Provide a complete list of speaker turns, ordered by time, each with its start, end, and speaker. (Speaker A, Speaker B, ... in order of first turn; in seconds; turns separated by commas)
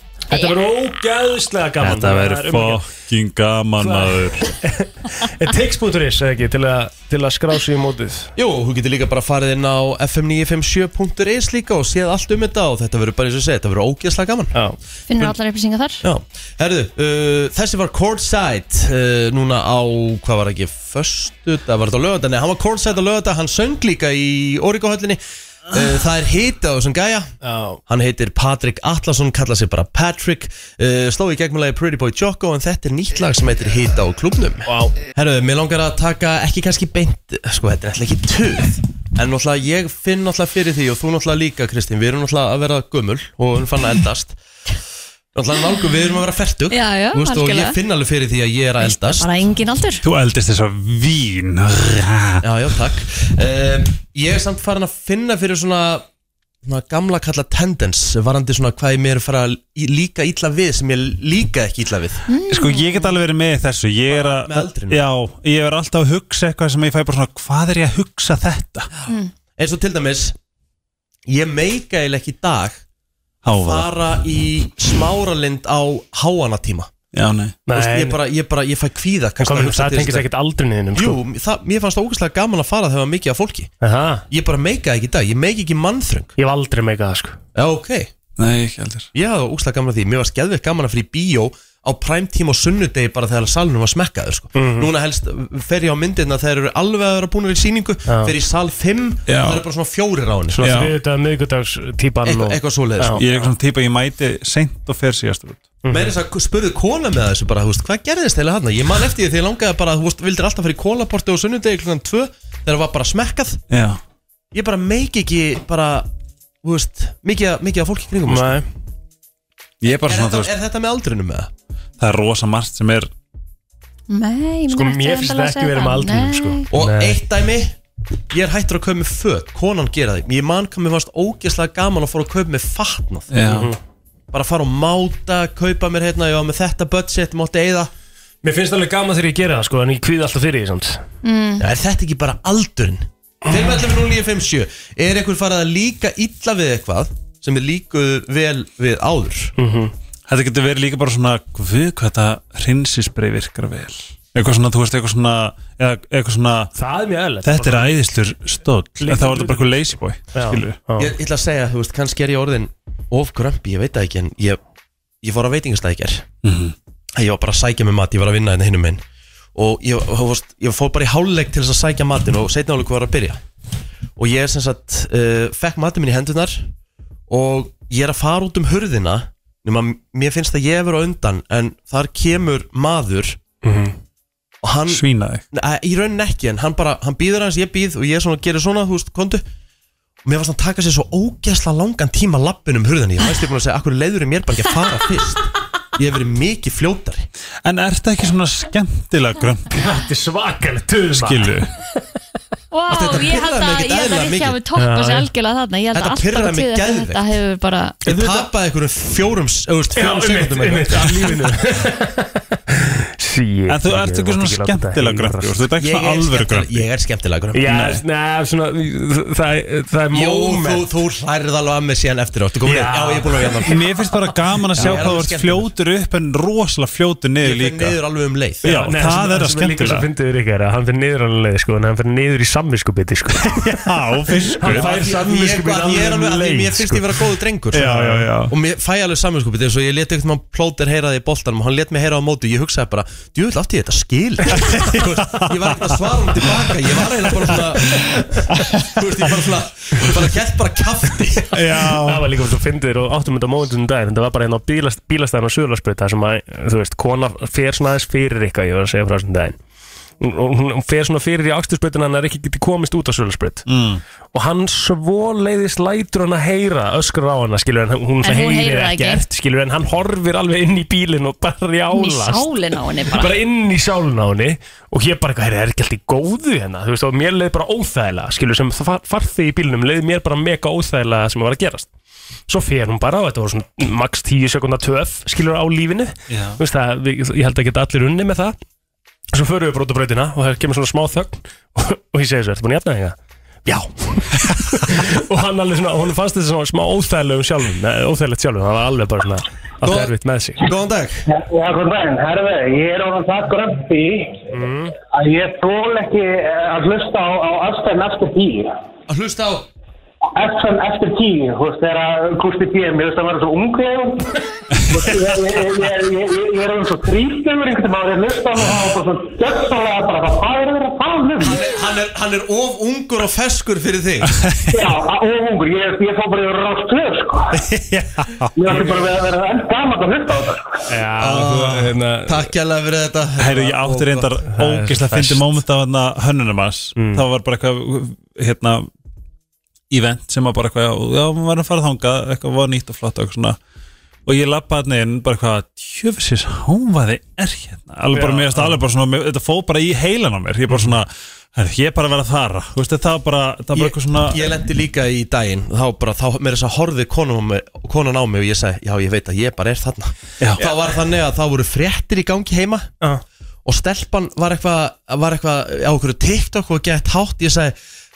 Speaker A: 0.3-2.9, Speaker B: 1.8-4.4, Speaker A: 3.8-8.3, Speaker C: 8.3-14.6, Speaker D: 15.1-16.0, Speaker C: 16.0-27.3, Speaker A: 27.4-27.8, Speaker C: 27.9-44.4, Speaker A: 34.6-35.0, Speaker C: 45.3-49.3, Speaker D: 46.7-47.8, Speaker D: 48.8-50.0, Speaker B: 50.0-52.4, Speaker C: 52.4-56.0, Speaker C: 56.6-62.2, Speaker D: 62.3-63.1, Speaker B: 62.5-68.9, Speaker C: 64.1-65.0, Speaker C: 69.6-70.3, Speaker C: 71.3-72.8, Speaker B: 73.4-73.9, Speaker C: 73.5-76.9, Speaker B: 77.1-77.5, Speaker A: 77.7-78.2, Speaker C: 77.7-80.3, Speaker A: 79.4-81.2, Speaker C: 80.9-83.7, Speaker A: 83.8-84.2, Speaker C: 84.3-86.3, Speaker A: 86.4-87.4, Speaker C: 87.5-88.1, Speaker B: 88.4-89.1, Speaker C: 89.1-100.7, Speaker A: 94.5-94.9, Speaker A: 98.1-98.3, Speaker B: 99.3-99.6, Speaker A: 100.5-103.5, Speaker B: 100.6-100.9, Speaker C: 102.2-103.2, Speaker B: 103.2-105.6, Speaker A: 105.8-106.1, Speaker C: 105.9-113.6, Speaker B: 113.7-114.0, Speaker C: 114.5-116.1, Speaker C: 116.6-118.6, Speaker A: 118.3-118.7, Speaker B: 119.8-120.5, Speaker C: 119.9-121.5, Speaker B: 122.0-123.1, Speaker D: 124.1-126.6, Speaker A: 124.7-127.2, Speaker C: 126.7-127.8, Speaker C: 128.3-133.4, Speaker B: 133.3-133.7, Speaker A: 133.4-133.8, Speaker C: 134.3-137.9, Speaker A: 138.4-141.0, Speaker D: 141.2-141.6, Speaker C: 141.6-149.5, Speaker A: 149.6-149.9, Speaker B: 150.3-156.7, Speaker A: 156.8-157.9, Speaker B: 157.4-160.8, Speaker A: 159.0-161.1, Speaker C: 161.0-164.6, Speaker C: 165.2-166.2, Speaker B: 166.4-166.7, Speaker C: 167.2-169.0, Speaker C: 169.5-173.4, Speaker C: 174.2-176.7, Speaker C: 177.3-183.4, Speaker A: 183.6-183.9, Speaker C: 184.6-189.4, Speaker B: 184.9-185.4, Speaker C: 190.2-197.3, Speaker B: 197.6-199.7, Speaker A: 199.7-201.6, Speaker B: 201.1-201.7, Speaker D: 202.7-208.0, Speaker C: 202.9-204.6, Speaker A: 204.8-205.3, Speaker C: 205.9-207.3, Speaker C: 208.0-211.6, Speaker A: 209.9-215.6, Speaker B: 213.7-216.8, Speaker C: 215.8-217.7, Speaker A: 217.5-220.9, Speaker B: 217.7-218.0, Speaker C: 220.1-223.8, Speaker A: 222.6-223.6, Speaker B: 223.7-227.9, Speaker A: 224.7-225.1, Speaker C: 224.8-225.7, Speaker C: 227.4-228.8, Speaker B: 228.6-230.1, Speaker A: 228.6-233.8, Speaker B: 233.4-234.9, Speaker A: 234.5-237.2, Speaker C: 234.6-251.6, Speaker B: 237.7-238.5, Speaker A: 237.8-238.3, Speaker B: 244.6-245.5, Speaker B: 248.5-249.0, Speaker B: 251.5-252.3, Speaker A: 251.7-259.6, Speaker A: 260.2-263.7, Speaker B: 263.7-264.0, Speaker A: 264.3-272.5, Speaker D: 268.2-269.2, Speaker D: 271.9-273.3, Speaker A: 273.1-281.9, Speaker A: 282.5-288.6, Speaker B: 286.3-286.6, Speaker A: 289.3-300.6, Speaker C: 299.8-301.2, Speaker E: 301.3-304.5, Speaker A: 304.5-305.0, Speaker E: 305.1-308.7, Speaker C: 309.1-309.7, Speaker E: 310.3-314.4, Speaker E: 314.9-321.6, Speaker C: 321.4-324.3, Speaker B: 324.4-324.9, Speaker E: 324.7-327.6, Speaker B: 327.5-328.5, Speaker E: 328.6-330.7, Speaker A: 330.9-332.5, Speaker C: 331.2-334.4, Speaker B: 333.4-338.9, Speaker A: 334.5-335.4, Speaker A: 336.9-337.2, Speaker B: 339.9-343.6, Speaker B: 344.2-354.5, Speaker A: 348.1-348.8, Speaker C: 353.7-362.9, Speaker B: 360.4-360.7, Speaker C: 363.6-367.7